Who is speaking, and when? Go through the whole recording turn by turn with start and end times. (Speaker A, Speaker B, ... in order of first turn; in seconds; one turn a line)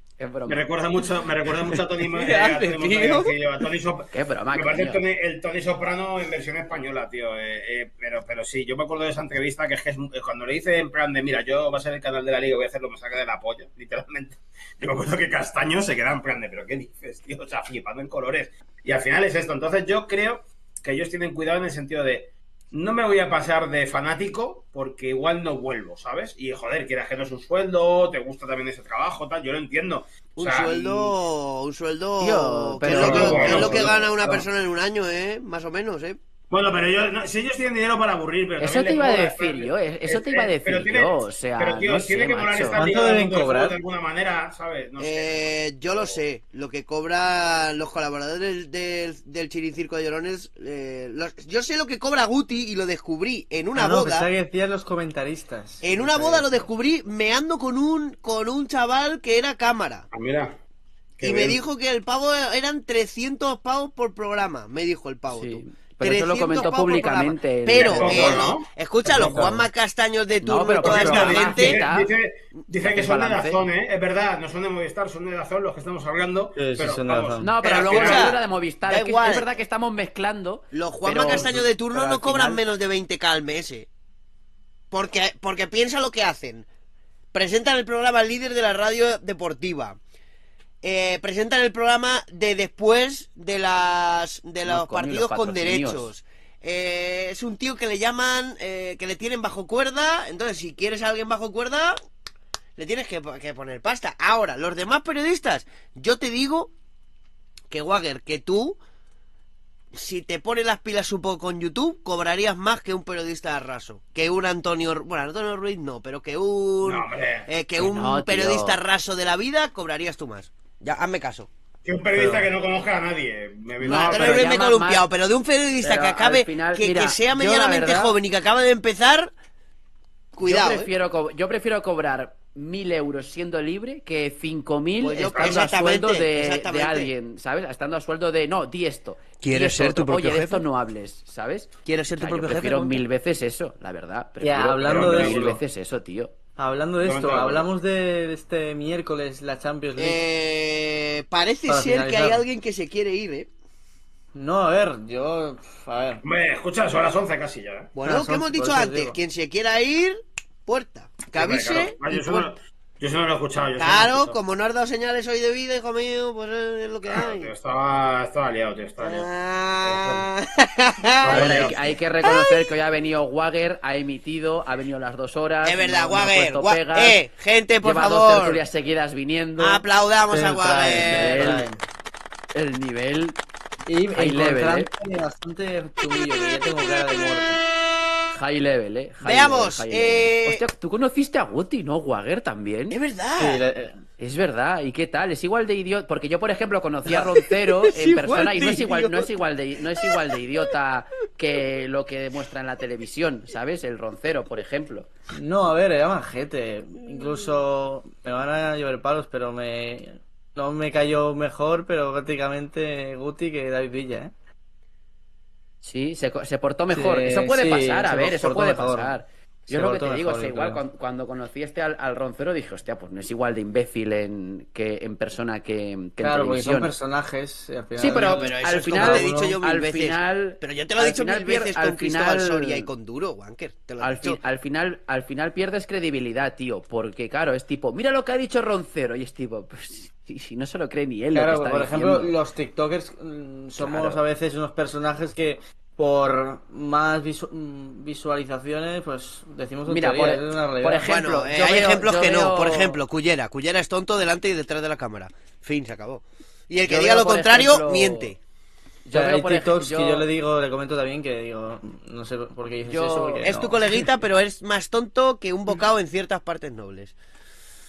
Speaker A: 0.2-0.6
Speaker B: 0.5-31.1
Speaker C: 2.0-3.3
Speaker A: 4.1-5.0
Speaker C: 30.4-36.2
Speaker A: 32.2-34.4
Speaker D: 32.9-33.8
Speaker B: 32.9-34.1
Speaker B: 36.5-46.2
Speaker A: 38.6-42.8
Speaker D: 42.7-43.8
Speaker C: 45.0-54.3
Speaker D: 53.7-56.5
Speaker C: 55.8-60.1
Speaker B: 60.1-60.6
Speaker B: 61.2-61.6
Speaker C: 61.2-71.8
Speaker A: 65.3-68.5
Speaker B: 67.8-69.4
Speaker D: 69.1-69.6
Speaker A: 70.4-72.1
Speaker B: 70.8-78.4
Speaker A: 72.8-73.6
Speaker D: 76.5-77.5
Speaker A: 77.4-82.6
Speaker C: 77.6-79.5
Speaker C: 80.7-83.9
Speaker D: 81.3-81.7
Speaker C: 84.9-86.7
Speaker C: 87.3-90.0
Speaker C: 90.8-102.0
Speaker A: 94.6-96.1
Speaker C: 102.8-106.7
Speaker C: 107.7-108.8
Speaker C: 109.9-121.5
Speaker B: 116.8-117.5
Speaker A: 117.8-118.8
Speaker B: 121.8-124.5
Speaker D: 122.2-122.4
Speaker C: 123.8-129.3
Speaker A: 123.8-125.0
Speaker A: 125.8-128.2
Speaker C: 130.3-130.9
Speaker A: 130.4-146.3
Speaker C: 135.0-137.1
Speaker B: 135.2-135.6
Speaker C: 139.4-140.6
Speaker C: 141.8-143.0
Speaker D: 144.4-145.6
Speaker B: 144.8-145.6
Speaker D: 146.6-150.2
Speaker B: 147.0-147.7
Speaker C: 149.9-153.5
Speaker D: 151.7-152.4
Speaker D: 154.3-156.2
Speaker B: 156.2-157.9
Speaker C: 157.9-162.5
Speaker D: 158.0-159.2
Speaker B: 161.3-164.4
Speaker C: 163.8-167.5
Speaker B: 167.1-169.3
Speaker C: 169.0-172.7
Speaker B: 169.8-170.2
Speaker B: 171.2-171.8
Speaker D: 171.2-171.7
Speaker A: 171.3-177.2
Speaker C: 175.6-178.6
Speaker A: 177.8-181.7
Speaker C: 179.6-181.6
Speaker D: 180.3-181.8
Speaker A: 182.5-183.4
Speaker D: 183.8-187.6
Speaker A: 184.1-184.9
Speaker A: 188.3-193.0
Speaker C: 189.2-190.6
Speaker C: 192.9-193.6
Speaker D: 193.4-194.0
Speaker A: 194.2-205.1
Speaker C: 197.1-199.3
Speaker C: 200.0-200.3
Speaker D: 205.3-214.3
Speaker A: 215.8-226.9
Speaker D: 216.9-219.1
Speaker D: 219.7-220.8
Speaker D: 226.2-229.6
Speaker A: 228.0-232.9
Speaker C: 228.1-234.4
Speaker A: 234.0-242.3
Speaker D: 241.3-251.1
Speaker A: 243.8-244.2
Speaker A: 249.9-253.0
Speaker C: 251.0-258.4
Speaker A: 256.8-258.3
Speaker A: 259.0-260.2
Speaker D: 259.1-264.1
Speaker C: 262.9-267.2
Speaker A: 262.9-263.6